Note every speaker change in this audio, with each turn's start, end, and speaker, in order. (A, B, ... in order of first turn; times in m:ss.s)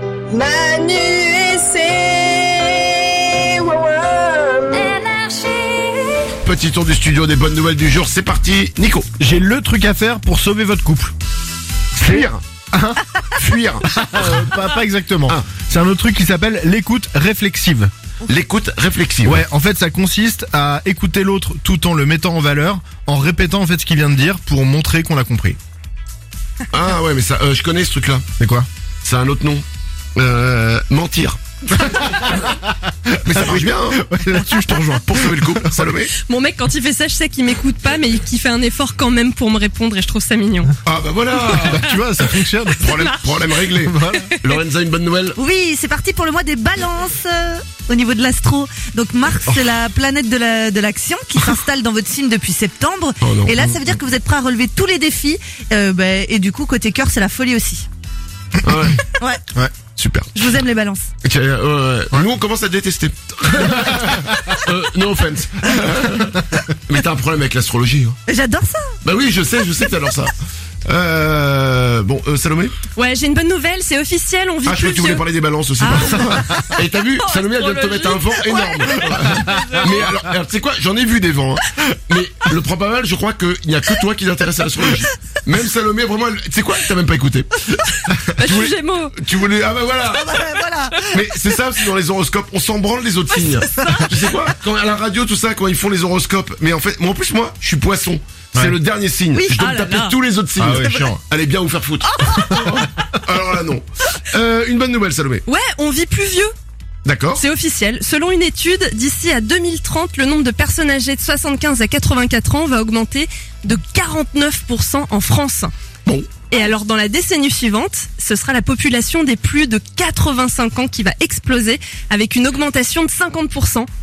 0:00.3-0:06.3 A
0:06.4-0:09.1 B
0:09.2-0:11.1 C
0:12.0-0:12.4 B
0:12.0-0:13.0 C
0:13.4-0:14.4 B
0:13.8-0:17.9 C
0:18.2-0:19.4 B
0:19.2-0:25.6 C
0:26.7-0:28.3 B
0:28.4-0:28.7 C
0:29.0-0:29.6 B
0:30.2-0:32.5 B
0:31.8-0:32.5 C
0:33.1-0:36.1 B
0:33.3-0:35.9 C
0:36.2-0:40.7 D
0:40.8-0:42.0 B
0:41.5-0:43.2 C
0:42.8-0:45.4 B
0:43.8-0:44.3 C
0:45.4-0:57.8 E
0:53.2-0:53.8 B
0:58.6-0:59.1 B
0:59.2-0:59.4 E
0:59.8-1:00.4 B
1:00.4-1:01.1 E
1:01.2-1:08.2 B
1:08.3-1:09.0 E
1:09.0-1:10.3 B
1:10.8-1:12.7 B
1:12.9-1:15.2 D
1:14.6-1:45.4 B
1:15.8-1:16.6 D
1:17.1-1:20.1 D
1:28.2-1:29.1 D
1:30.0-1:31.0 E
1:33.6-1:34.2 D
1:39.3-1:40.2 D
1:40.6-1:41.2 C
1:42.0-1:42.9 D
1:45.4-1:46.5 D
1:47.0-1:47.4 B
1:47.3-1:55.7 D
1:56.5-2:03.9 D